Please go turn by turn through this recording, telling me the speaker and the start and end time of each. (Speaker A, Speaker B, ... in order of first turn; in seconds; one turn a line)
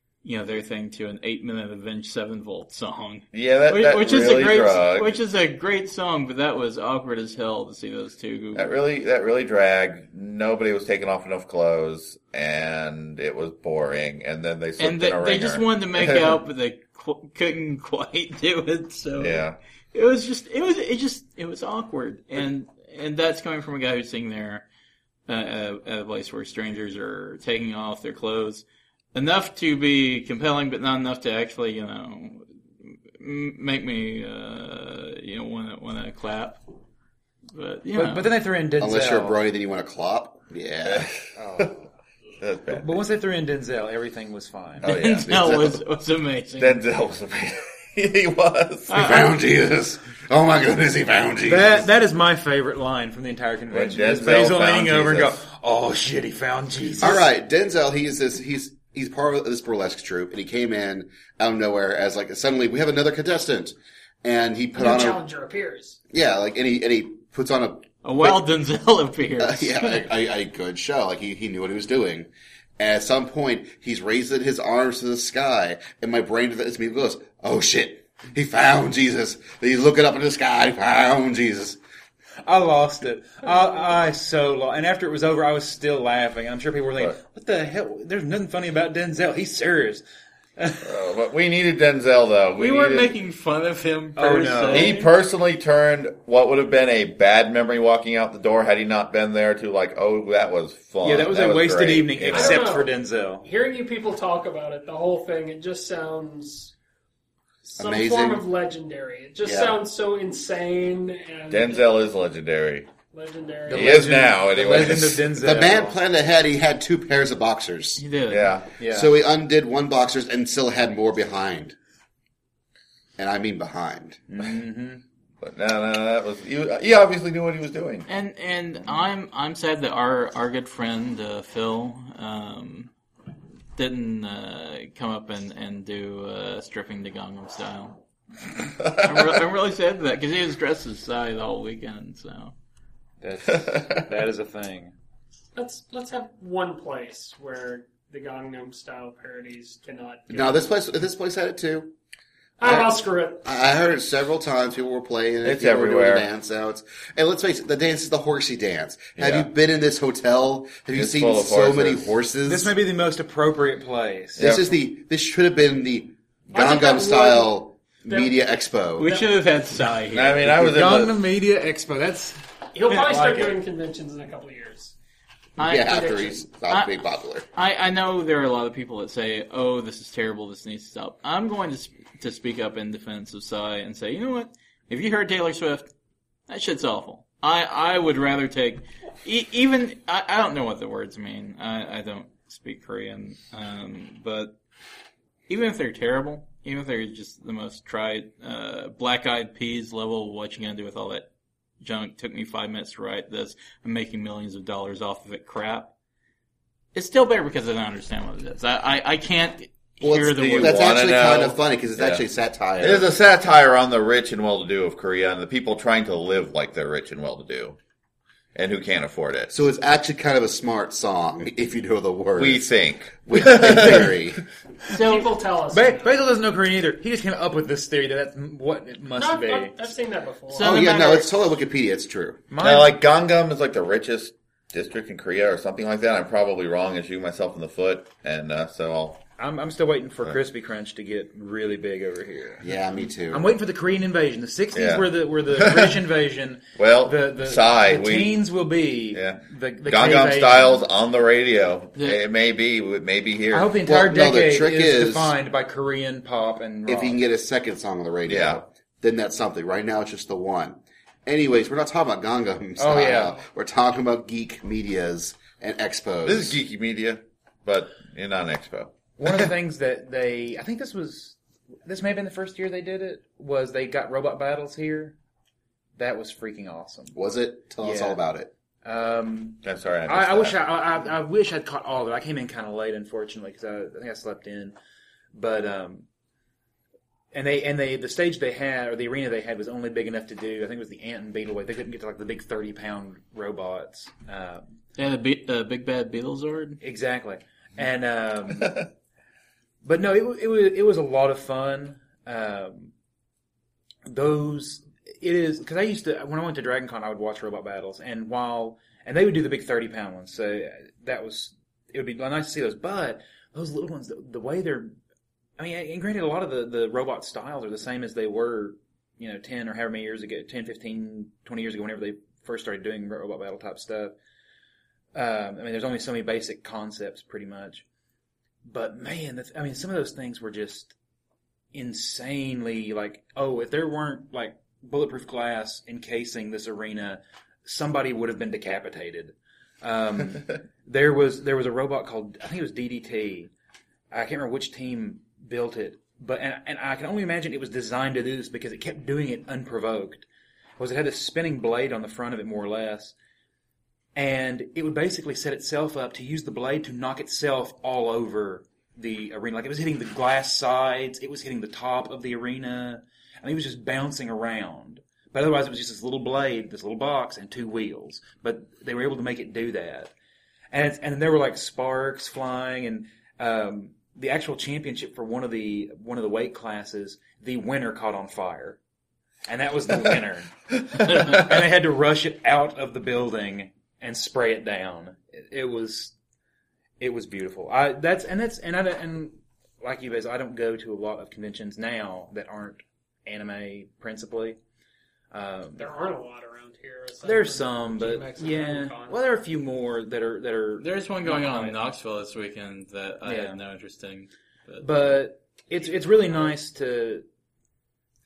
Speaker A: 0.2-8.7
Speaker B: 3.3-5.2
Speaker B: 8.5-16.4
Speaker A: 14.8-24.6
Speaker B: 19.2-19.6
Speaker A: 25.3-36.6
Speaker A: 37.5-38.3
Speaker C: 37.9-39.4
Speaker D: 38.8-41.1
Speaker B: 40.8-41.8
Speaker C: 41.4-41.8
Speaker B: 42.4-43.0
Speaker C: 42.7-44.9
Speaker B: 44.8-45.8
Speaker A: 44.8-46.8
Speaker B: 46.6-49.1
Speaker A: 48.9-49.3
Speaker D: 48.9-51.9
Speaker C: 51.4-57.3
Speaker B: 53.7-55.4
Speaker D: 57.0-65.2
Speaker E: 64.8-66.0
Speaker D: 66.1-68.4
Speaker A: 68.0-70.0
Speaker D: 69.4-81.8
Speaker C: 82.4-90.0
Speaker C: 90.6-90.9
Speaker B: 90.8-93.2
Speaker A: 92.6-95.0
Speaker C: 94.2-95.0
Speaker B: 94.7-102.7
Speaker C: 101.0-103.5
Speaker E: 102.3-106.7
Speaker E: 107.7-111.9
Speaker D: 107.7-108.5
Speaker D: 109.4-109.8
Speaker B: 111.5-112.9
Speaker E: 113.1-114.2
Speaker C: 113.7-116.0
Speaker B: 113.7-115.3
Speaker D: 115.4-118.0
Speaker A: 118.0-118.6
Speaker B: 118.3-118.7
Speaker C: 118.8-119.1
Speaker D: 118.9-121.8
Speaker D: 123.2-124.2
Speaker C: 124.3-125.0
Speaker B: 125.4-128.1
Speaker A: 128.1-132.9
Speaker A: 133.8-138.0
Speaker A: 138.6-142.5
Speaker B: 138.8-139.4
Speaker C: 143.2-144.9
Speaker B: 143.6-144.0
Speaker E: 145.5-150.6
Speaker D: 150.3-151.9
Speaker E: 152.6-153.4
Speaker D: 152.6-162.7
Speaker B: 155.4-156.3
Speaker B: 159.2-159.5
Speaker B: 160.9-162.1
Speaker C: 162.4-164.5
Speaker B: 164.4-164.7
Speaker D: 164.4-169.1
Speaker E: 166.5-168.4
Speaker A: 169.0-170.7
Speaker E: 169.0-169.3
Speaker B: 170.1-171.2
Speaker C: 170.5-173.6
Speaker E: 172.7-174.9
Speaker A: 175.6-185.9
Speaker D: 175.6-177.4
Speaker E: 175.9-176.3
Speaker A: 186.5-194.6
Speaker A: 195.5-201.3
Speaker A: 201.8-205.9
Speaker A: 206.9-210.9
Speaker D: 210.0-213.1
Speaker B: 210.3-212.2
Speaker B: 212.8-217.8
Speaker B: 218.5-219.5
Speaker D: 219.5-224.4
Speaker B: 222.4-224.2
Speaker A: 224.9-225.3
Speaker E: 224.9-226.2
Speaker C: 225.7-229.9
Speaker E: 229.1-230.8
Speaker A: 230.5-231.3
Speaker D: 230.6-232.4
Speaker C: 232.5-233.0
Speaker B: 232.6-239.2
Speaker C: 239.4-242.7
Speaker D: 242.6-243.5
Speaker C: 243.3-250.8
Speaker B: 244.7-246.0
Speaker B: 246.8-248.4
Speaker B: 249.1-253.8
Speaker C: 253.5-257.2
Speaker D: 253.8-255.3
Speaker D: 256.9-266.6
Speaker B: 258.3-258.6
Speaker C: 262.8-263.4
Speaker B: 266.2-268.9
Speaker C: 269.2-275.1
Speaker C: 276.0-277.1
Speaker D: 277.1-278.5
Speaker C: 277.8-278.2
Speaker C: 278.8-284.8
Speaker B: 279.6-280.6
Speaker C: 285.3-286.1
Speaker C: 287.3-294.6
Speaker A: 294.9-296.8
Speaker C: 296.8-298.9
Speaker C: 299.8-302.9
Speaker C: 304.1-314.9
Speaker C: 315.6-324.1
Speaker C: 325.1-327.8
Speaker C: 328.6-330.9
Speaker C: 331.7-343.5
Speaker C: 344.1-350.2
Speaker C: 350.8-353.1
Speaker C: 354.1-370.1
Speaker C: 370.7-378.8
Speaker C: 379.5-386.1
Speaker C: 387.0-394.6
Speaker C: 395.3-395.9
Speaker E: 395.8-399.2
Speaker C: 397.2-401.8
Speaker A: 400.8-405.2
Speaker C: 403.2-403.6
Speaker C: 404.8-407.2
Speaker E: 406.2-406.5